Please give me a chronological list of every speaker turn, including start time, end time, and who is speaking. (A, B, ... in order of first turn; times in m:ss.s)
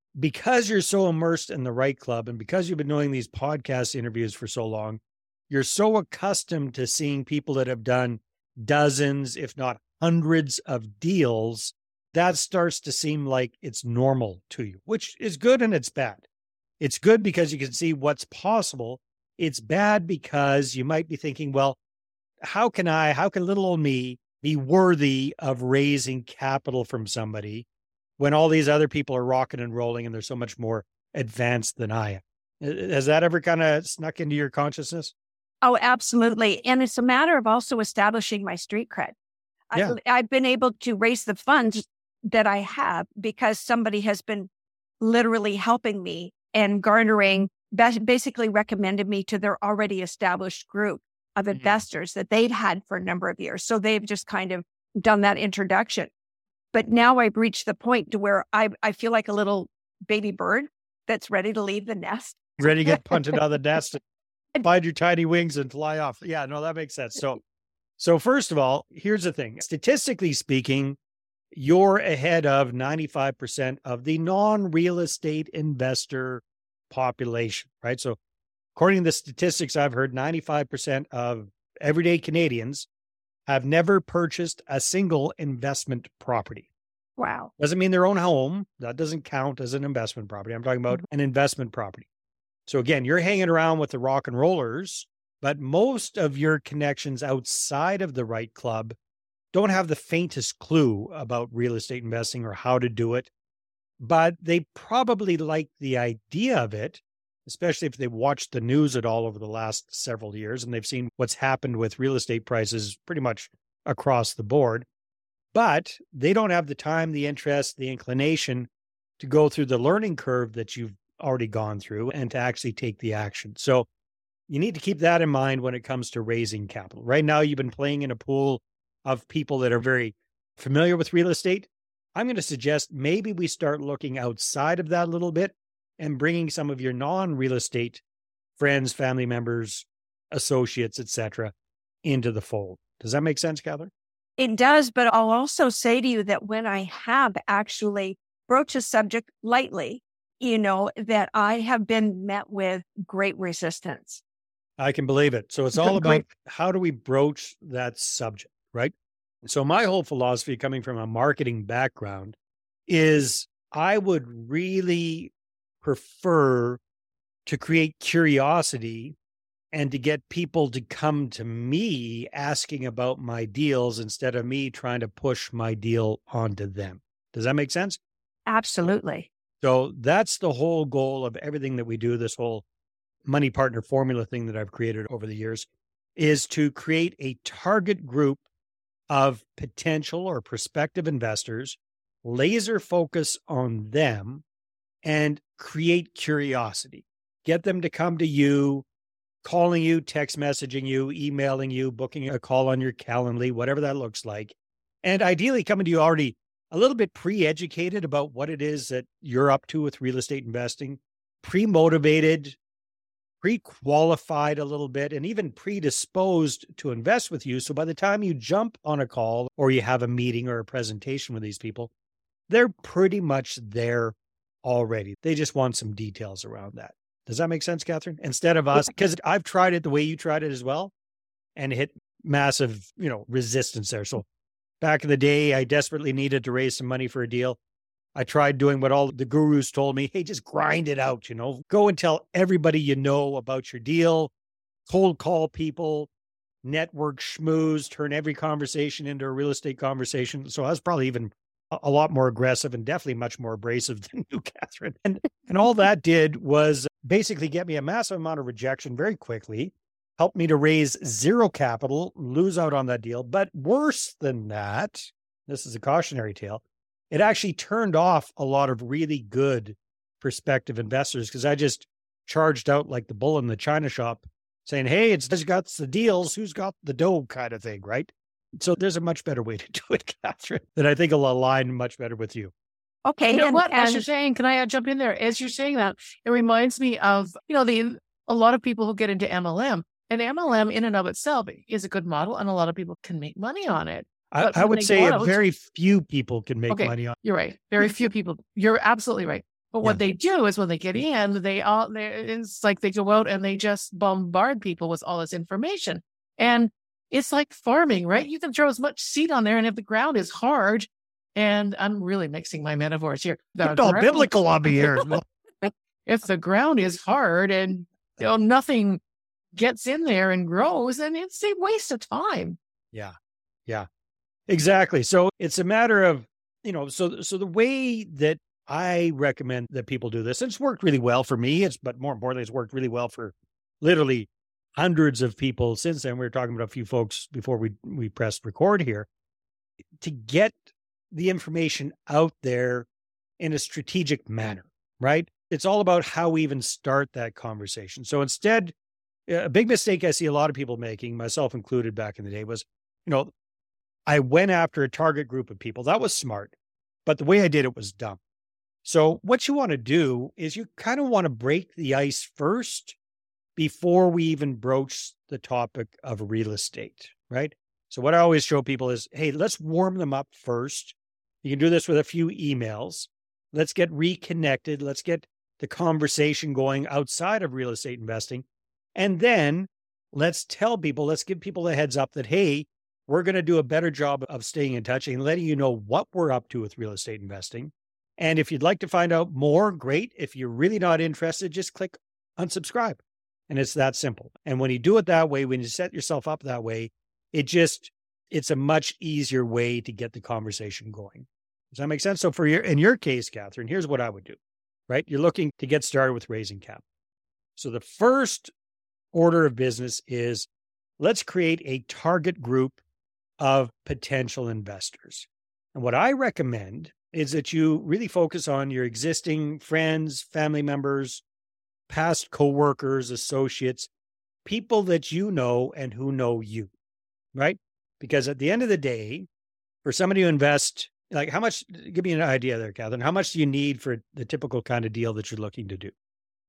0:00.2-0:16.3 A
0:16.8-0:21.8 A
0:22.4-0:27.7 A
0:28.2-0:35.1 A
0:35.6-0:39.2 B
0:39.7-0:44.5 B
0:45.0-0:56.1 B
0:56.7-1:03.0 B
1:02.6-1:04.0 A
1:04.6-1:07.4 A
1:08.0-1:11.0 A
1:11.5-1:18.2 A
1:18.8-1:22.9 A
1:23.5-1:26.7 A
1:27.2-1:27.5 B
1:27.6-1:32.0 A
1:32.7-1:39.0 A
1:39.5-1:43.3 A
1:44.0-1:54.9 A
1:55.5-2:03.9 A
2:04.5-2:18.0 A
2:18.6-2:21.5 A
2:22.0-2:23.9 A
2:24.4-2:34.2 B
2:34.8-2:42.4 A
2:35.8-2:36.2 B
2:42.9-2:46.8 A
2:47.5-2:49.2 A
2:49.7-2:58.0 A
2:58.5-2:59.3 B
2:59.6-3:02.6 A
3:03.3-3:08.4 A
3:09.1-3:14.4 A
3:15.0-3:18.8 A
3:19.4-3:32.6 A
3:33.4-3:41.9 A
3:42.5-3:50.9 A
3:51.6-3:54.3 A
3:54.8-3:57.6 A
3:58.2-4:04.3 A
4:04.9-4:06.1 A
4:06.6-4:42.5 A
4:43.1-4:44.0 B
4:43.3-4:55.4 C
4:54.3-4:57.2 A
4:56.7-5:15.1 C
5:13.6-5:15.2 A
5:15.6-5:19.0 C
5:19.6-5:22.6 C
5:24.5-5:39.1 A
5:40.0-5:40.6 A
5:41.1-5:42.9 A
5:43.4-5:48.7 A
5:49.3-5:53.3 A
5:54.1-5:56.5 A
5:57.1-5:58.2 A
5:58.8-6:03.0 A
6:03.6-6:44.4 A
6:44.9-6:46.8 A
6:47.6-6:48.5 A
6:49.1-6:50.5 A
6:51.0-6:52.8 A
6:53.4-7:01.2 A
7:01.9-7:03.9 A
7:04.4-7:06.7 A
7:07.3-7:09.3 A
7:09.8-7:15.9 A